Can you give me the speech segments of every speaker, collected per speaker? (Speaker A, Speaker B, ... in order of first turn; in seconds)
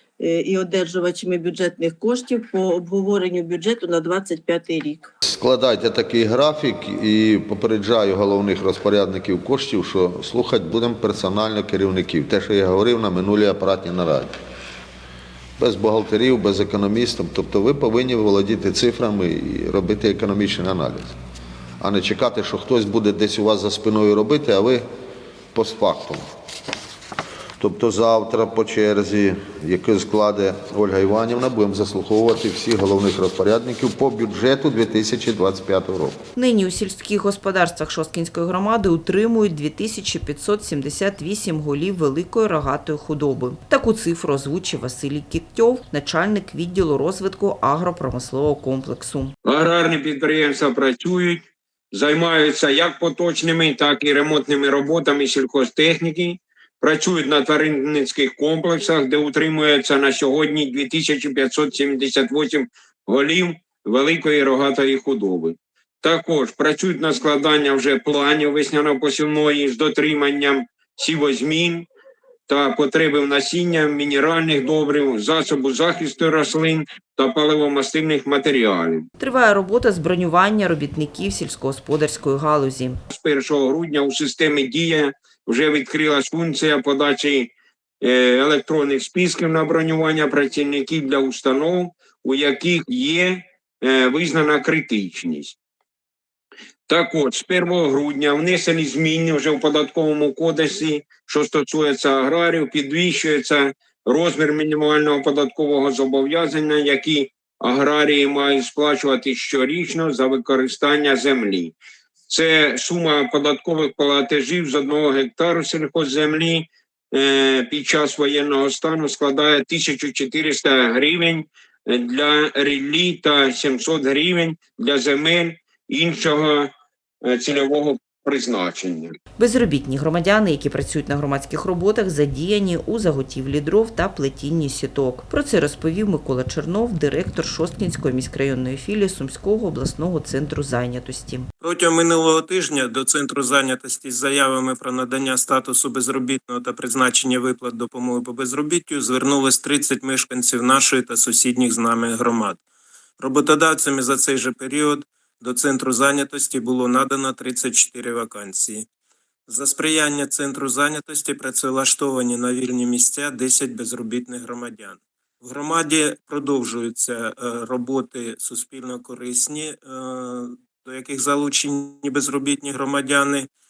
Speaker A: 0.2-5.1
Speaker B: 5.2-14.3, 15.6-21.1, 21.8-24.8, 25.5-26.2, 27.6-36.2
Speaker C: 36.4-49.3, 79.2-83.0, 129.4-141.5
Speaker D: 49.4-71.9, 72.5-79.1, 83.1-95.6, 96.9-111.7, 112.3-129.1
Speaker E: 141.6-152.6, 153.2-158.9, 159.5-173.5